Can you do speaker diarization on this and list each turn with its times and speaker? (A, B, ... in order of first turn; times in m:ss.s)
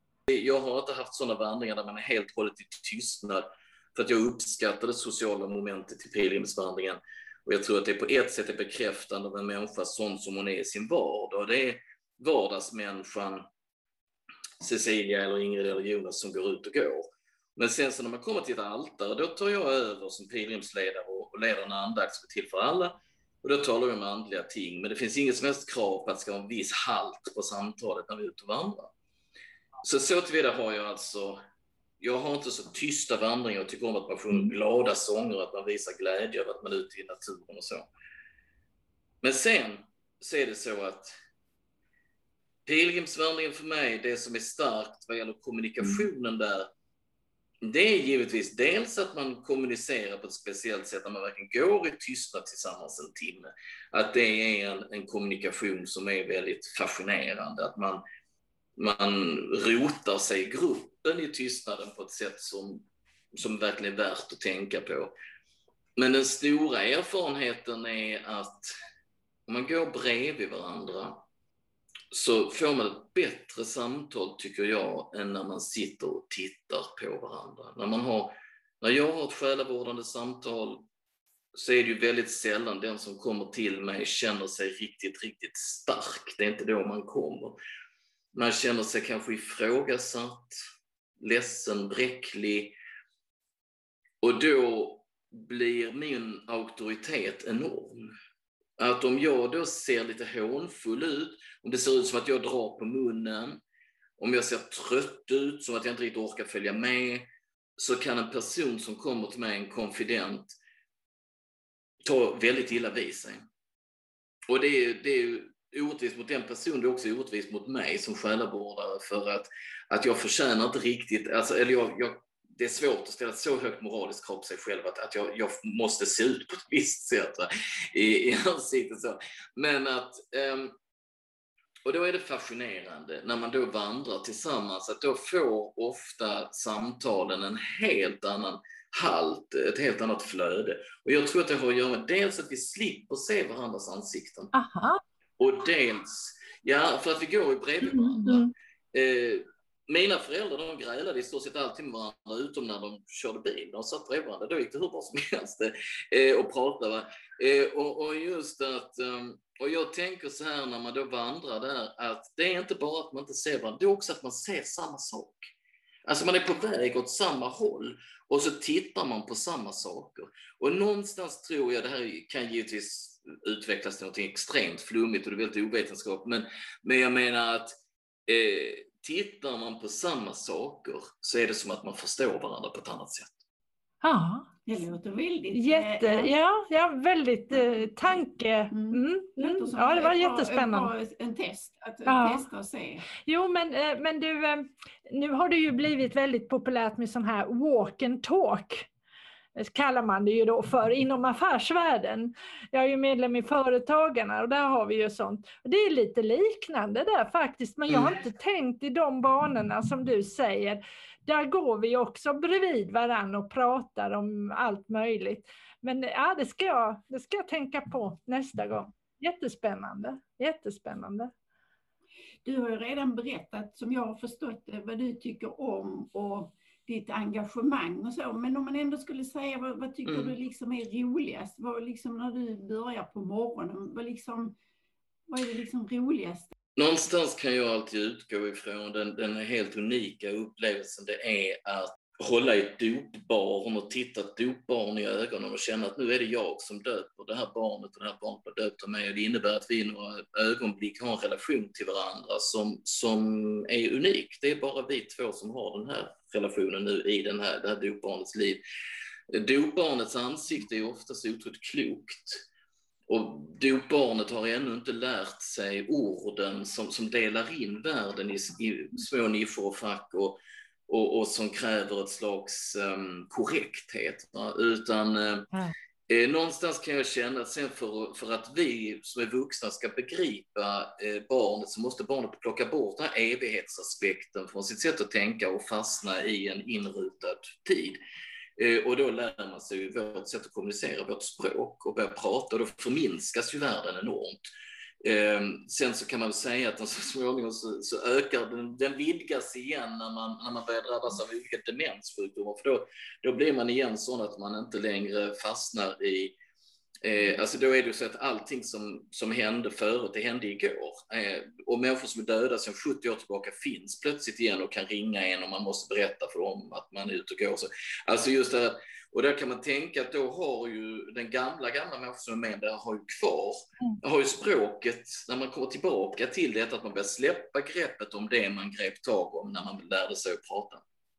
0:00.3-0:13.4 A
0:14.6-0:28.9 A
0:29.8-0:31.4 A
0:32.0-0:37.9 A
0:39.2-0:41.1 A
0:42.7-0:46.7 A
0:47.6-0:58.0 A
0:58.8-1:05.1 A
1:06.0-1:08.7 A
1:09.5-1:11.2 A
1:12.1-1:20.9 A
1:21.5-1:27.6 A
1:28.3-1:30.6 A
1:31.2-1:32.8 A
1:34.2-1:38.1 A
1:38.8-1:43.6 A
1:44.2-1:50.6 A
1:52.0-1:53.4 A
1:54.5-2:10.8 A
2:11.9-2:24.5 A
2:24.5-2:25.0 B
2:25.4-2:45.5 A
2:27.8-2:28.5 B
2:46.1-2:57.7 A
2:58.3-3:03.4 A
3:04.0-3:04.5 B
3:04.7-3:06.3 C
3:05.5-3:10.9 B
3:07.5-3:08.2 C
3:08.7-3:13.1 C
3:12.1-3:12.5 B
3:13.2-3:18.9 B
3:19.6-3:41.3 B
3:42.4-3:54.6 C
3:50.1-3:50.4 A
3:55.3-3:56.5 C
3:56.8-4:18.6 A
4:19.3-4:22.4 A
4:23.1-4:35.5 A
4:36.1-4:48.0 A
4:48.6-4:54.5 A
4:55.0-5:06.4 A
5:07.0-5:30.8 A